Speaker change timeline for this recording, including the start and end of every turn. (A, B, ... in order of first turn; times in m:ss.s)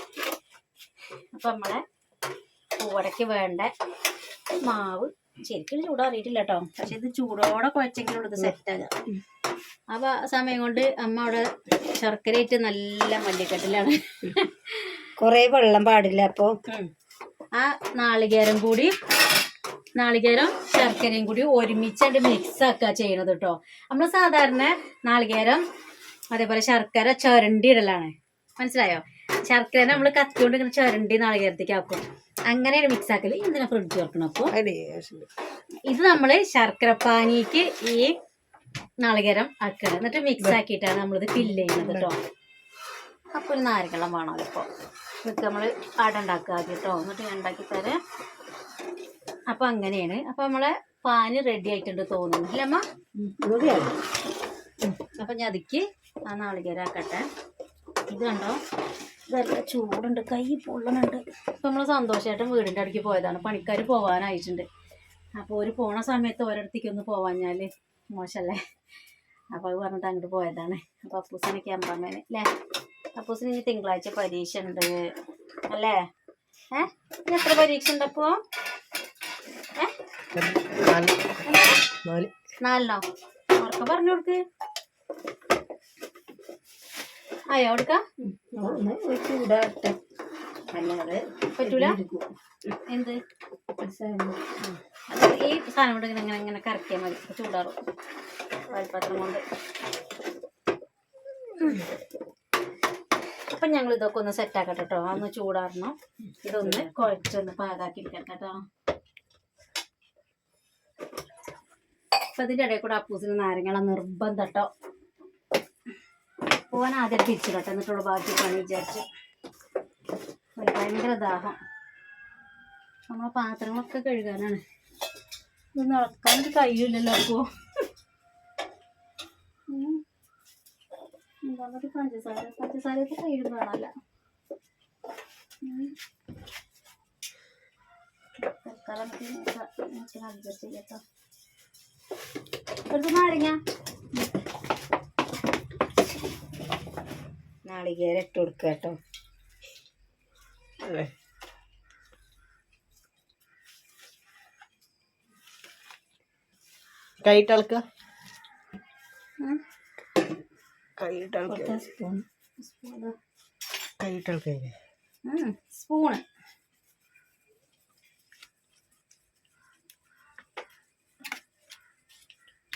0:01.4-0:01.8 A
0:02.8-0:03.7 A
0:04.6-0:08.9 A
0:09.9-0:15.0 A
0:15.2-0:16.6 B
0:17.5-0:18.9 A
0:20.0-0:25.6 A
0:26.3-0:34.5 A
0:34.5-0:35.3 C
0:35.9-0:38.1 A
0:39.0-0:42.2 A
0:41.4-0:42.1 C
0:43.3-0:44.7 A
0:45.2-0:48.0 A
0:49.5-0:52.8 A
0:53.1-0:53.9 B
0:55.2-0:57.2 A
0:58.1-0:58.6 A
0:59.3-1:04.6 A
1:05.4-1:08.6 A
1:09.5-1:12.5 A
1:13.2-1:15.0 A
1:15.7-1:16.0 A
1:16.7-1:18.4 A
1:20.3-1:21.3 C
1:21.4-1:21.8 A
1:22.0-1:22.3 C
1:22.6-1:23.0 A
1:23.6-1:24.4 A
1:27.5-1:28.0 A
1:28.2-1:30.0 B
1:30.7-1:32.2 B
1:31.6-1:32.0 A
1:32.9-1:33.2 A
1:33.8-1:34.4 B
1:34.6-1:37.8 A
1:38.7-1:39.4 A
1:43.5-1:48.5 A
1:52.3-1:54.7 A
1:56.7-1:59.0 A
2:00.6-2:01.6 A
2:03.1-2:04.6 A
2:05.8-2:07.4 A
2:09.7-2:10.0 A
2:11.5-2:13.9 A
2:15.6-2:15.9 A
2:18.4-2:21.0 A
2:22.9-2:23.6 A
2:27.6-2:29.0 B
2:30.8-2:31.1 C
2:37.2-2:37.8 C
2:41.0-2:41.8 C
2:41.5-2:42.2 B
2:42.6-2:43.1 A
2:44.0-2:44.8 C
2:45.2-2:46.2 A